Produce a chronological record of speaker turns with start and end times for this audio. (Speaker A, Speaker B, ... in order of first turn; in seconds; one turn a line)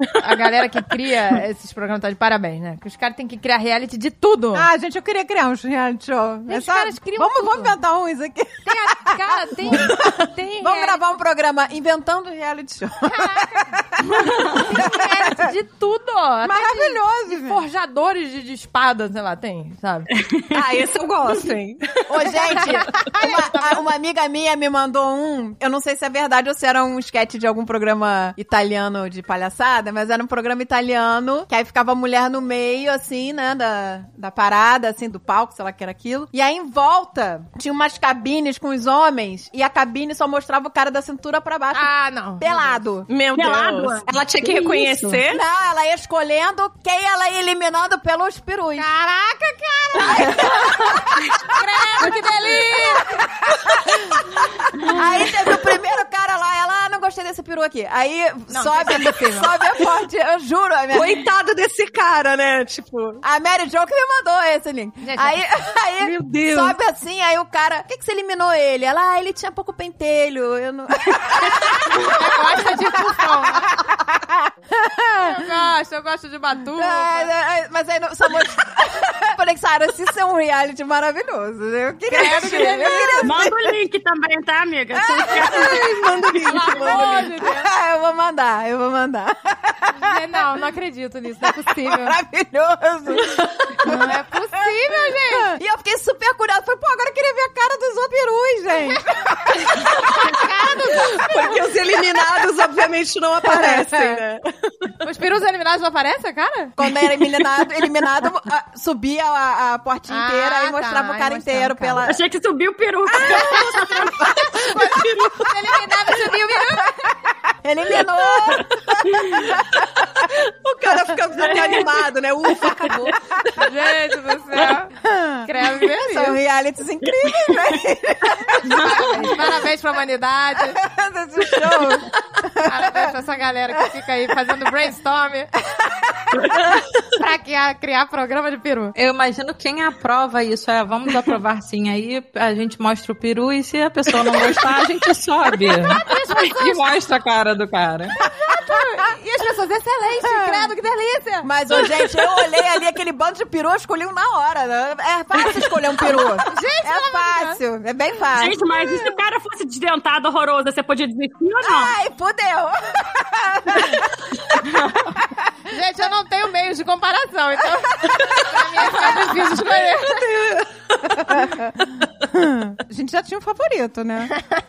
Speaker A: 0.2-4.7
Speaker B: 4.5-15.5
Speaker A: 6.5-7.8
Speaker A: 8.6-11.0
Speaker A: 13.1-13.7
Speaker A: 14.4-20.1
Speaker B: 16.4-17.6
Speaker C: 20.2-20.6
Speaker D: 20.5-22.7
Speaker B: 22.1-43.1
Speaker A: 22.6-23.8
Speaker A: 41.7-42.8
Speaker D: 43.1-45.4
Speaker C: 43.3-45.2
Speaker B: 45.3-48.9
Speaker A: 48.8-50.9
Speaker B: 49.9-51.3
Speaker A: 51.5-53.1
Speaker B: 52.0-61.2
Speaker A: 58.5-59.5
Speaker D: 60.9-63.2
Speaker B: 63.2-75.5
Speaker A: 65.0-65.4
Speaker D: 66.0-66.8
Speaker A: 71.8-73.8
Speaker A: 75.2-77.3
Speaker B: 76.7-83.7
Speaker A: 82.1-83.3
Speaker C: 83.2-86.0
Speaker B: 84.9-90.2
Speaker D: 85.4-87.3
Speaker A: 86.5-87.7
Speaker A: 89.9-92.2
Speaker B: 91.5-100.3
Speaker A: 93.8-95.5
Speaker A: 100.1-101.5
Speaker D: 101.0-104.9
Speaker B: 103.4-103.9
Speaker A: 105.0-106.7
Speaker B: 106.8-112.2
Speaker A: 110.1-112.0
Speaker C: 112.0-114.5
Speaker B: 113.1-114.9
Speaker A: 114.4-117.1
Speaker B: 117.4-119.9
Speaker C: 118.5-119.5
Speaker D: 120.2-123.4
Speaker B: 120.9-121.8
Speaker C: 121.5-121.8
Speaker B: 122.9-123.1
Speaker A: 123.6-124.9
Speaker B: 125.0-129.5
Speaker A: 125.4-126.4
Speaker C: 127.0-127.8
Speaker A: 128.6-130.8
Speaker C: 128.6-129.2
Speaker B: 130.6-133.1
Speaker A: 132.6-135.5
Speaker B: 135.7-136.5
Speaker A: 137.2-138.9
Speaker E: 138.9-148.1
Speaker A: 145.8-146.9
Speaker A: 148.2-152.4
Speaker B: 150.2-150.7
Speaker B: 151.4-159.2
Speaker A: 156.4-157.6
Speaker C: 158.3-161.9
Speaker B: 161.6-164.4
Speaker A: 165.7-170.2
Speaker B: 168.0-169.5
Speaker D: 170.1-170.7
Speaker B: 171.0-174.3